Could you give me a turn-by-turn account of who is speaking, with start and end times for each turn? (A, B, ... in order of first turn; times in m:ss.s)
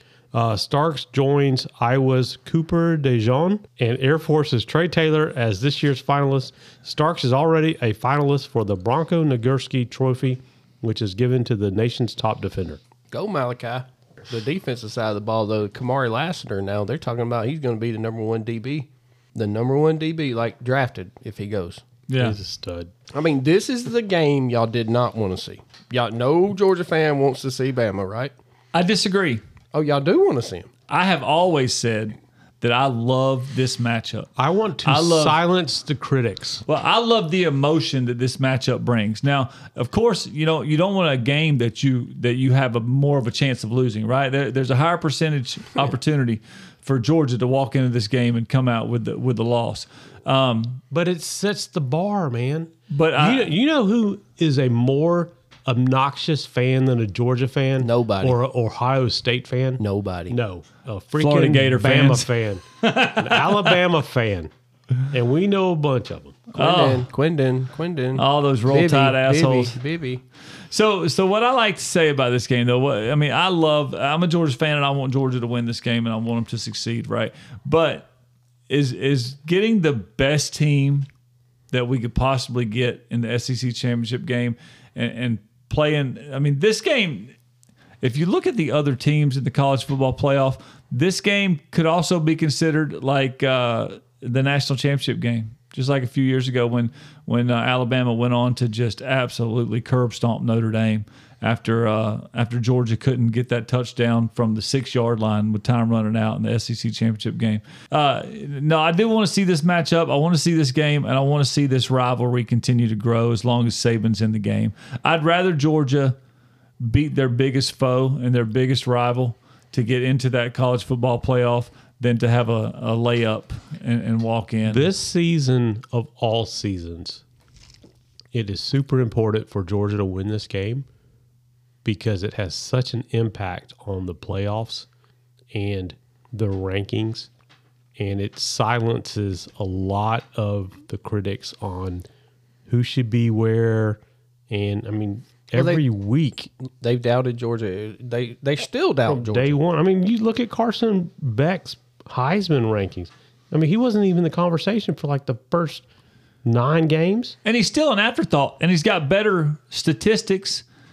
0:00.3-0:12.8 A
0:13.1-0:21.8 B
0:22.1-0:22.4 C
0:22.2-0:22.9 A
0:23.1-0:28.3 B
0:28.7-0:29.4 C
0:29.7-0:30.7 B
0:30.9-0:34.3 C
0:34.4-0:36.6 A
0:34.8-0:35.4 C
0:36.6-0:50.8 C
0:50.9-1:04.5 A
0:52.9-0:53.5 C
0:57.8-0:58.4 B
0:59.8-1:00.4 B
1:01.2-1:03.8 C
1:05.0-1:06.5 A
1:06.5-1:10.2 B
1:06.6-1:07.1 C
1:08.1-1:09.8 C
1:10.7-1:18.1 C
1:18.7-1:21.1 C
1:21.7-1:27.3 C
1:28.0-1:56.2 C
1:56.8-2:04.9 C
2:04.6-2:07.2 A
2:08.3-2:10.8 A
2:11.8-2:14.9 A
2:15.5-2:17.3 A
2:18.0-2:22.0 A
2:22.7-2:26.5 A
2:25.5-2:25.8 B
2:26.8-2:29.6 B
2:29.0-2:35.8 A
2:36.4-2:37.4 A
2:37.4-2:40.6 C